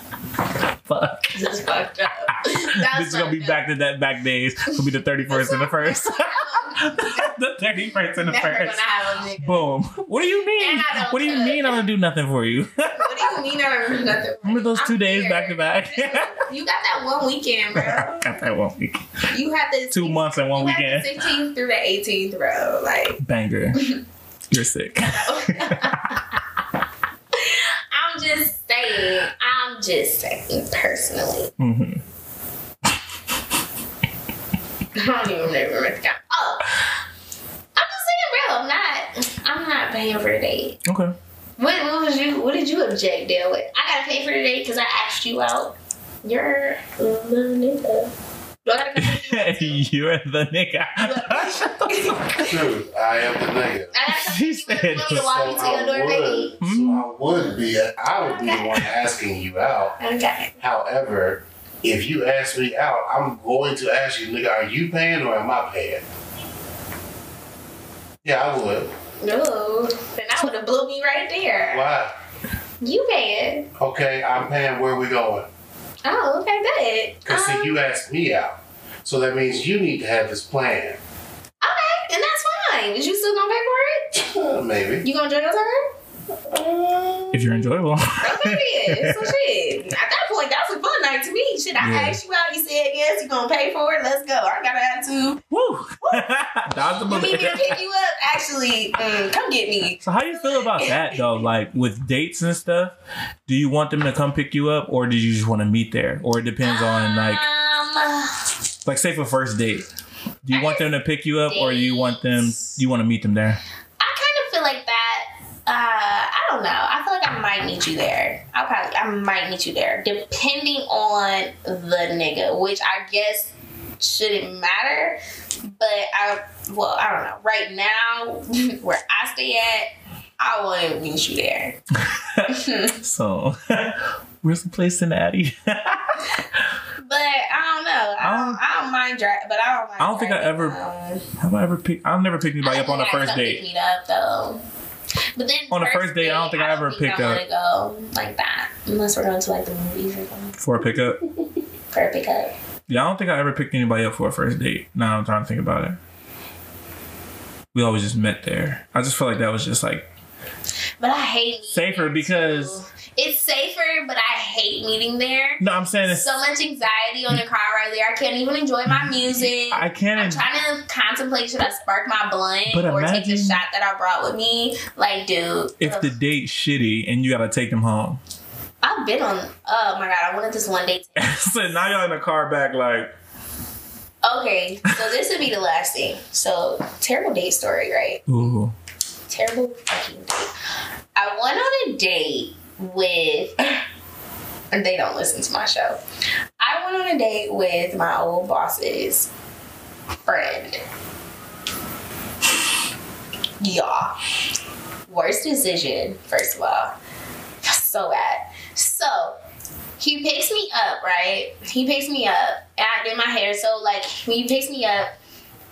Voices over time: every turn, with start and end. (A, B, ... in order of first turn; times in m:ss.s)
0:00.5-0:01.4 A
0:01.3-0:03.6 B
0:02.5-0:08.8 A
0:05.3-0:07.3 B
0:08.2-0:09.7 B
0:09.4-0:13.4 A
0:10.6-0:11.8 B
0:13.0-0:18.3 B
0:14.4-0:16.4 A
0:17.7-0:19.2 A
0:19.3-0:23.2 B
0:19.9-0:21.3 A
0:23.2-0:23.9 A
0:23.8-0:24.0 B
0:24.5-0:26.2 A
0:25.1-0:26.2 B
0:27.3-0:31.5 B
0:31.6-0:32.0 A
0:35.0-0:36.9 B
0:37.8-0:40.8 B
0:40.8-0:41.2 A
0:41.6-0:48.1 B
0:48.6-0:49.8 B
0:49.0-0:52.4 A
0:51.0-0:52.6 B
0:52.4-0:54.0 C
0:53.9-0:56.5 B
0:54.1-0:55.3 A
0:55.1-1:00.0 C
0:56.6-0:57.1 A
0:58.3-0:58.8 B
1:00.0-1:00.6 B
1:00.6-1:06.0 C
1:08.2-1:08.9 C
1:09.2-1:11.9 B
1:11.7-1:12.1 C
1:12.8-1:13.7 B
1:13.8-1:15.5 C
1:16.0-1:17.8 B
1:17.3-1:21.0 C
1:21.6-1:24.2 B
1:24.2-1:25.0 C
1:25.0-1:25.9 B
1:26.5-1:27.6 C
1:27.3-1:29.3 A
1:28.2-1:35.4 B
1:31.8-1:32.2 A
1:35.5-1:37.8 A
1:36.0-1:36.4 B
1:37.0-1:41.1 B
1:40.0-1:43.0 A
1:43.5-1:47.4 A
1:46.6-1:48.5 B
1:48.8-1:49.9 A
1:50.4-1:53.6 A
1:50.5-1:50.9 B
1:51.5-1:52.8 B
1:54.0-2:05.2 B
2:05.7-2:11.8 B
2:12.0-2:16.7 A
2:12.5-2:13.0 B
2:17.0-2:21.2 B
2:18.2-2:18.6 A
2:20.0-2:20.8 A
2:21.4-2:23.6 A
2:22.6-2:24.6 B
2:25.4-2:30.6 B
2:25.7-2:27.4 A
2:30.6-2:31.2 A
2:31.9-2:32.5 B
2:32.9-2:36.0 A
2:37.7-2:40.1 A
2:41.0-2:56.1 B
2:41.7-2:42.8 A
2:45.6-2:46.4 A
2:48.9-2:50.5 A
2:52.7-2:53.6 A
2:55.8-2:58.2 A
2:58.8-3:01.3 B
3:01.2-3:03.1 A
3:04.2-3:08.3 B
3:08.3-3:08.8 A
3:09.3-3:10.5 B
3:11.2-3:13.8 B
3:14.7-3:16.0 B
3:16.6-3:19.3 B
3:20.2-3:20.8 B
3:23.6-3:24.2 B
3:25.1-3:27.0 B
3:27.6-3:29.4 B
3:30.0-3:35.1 B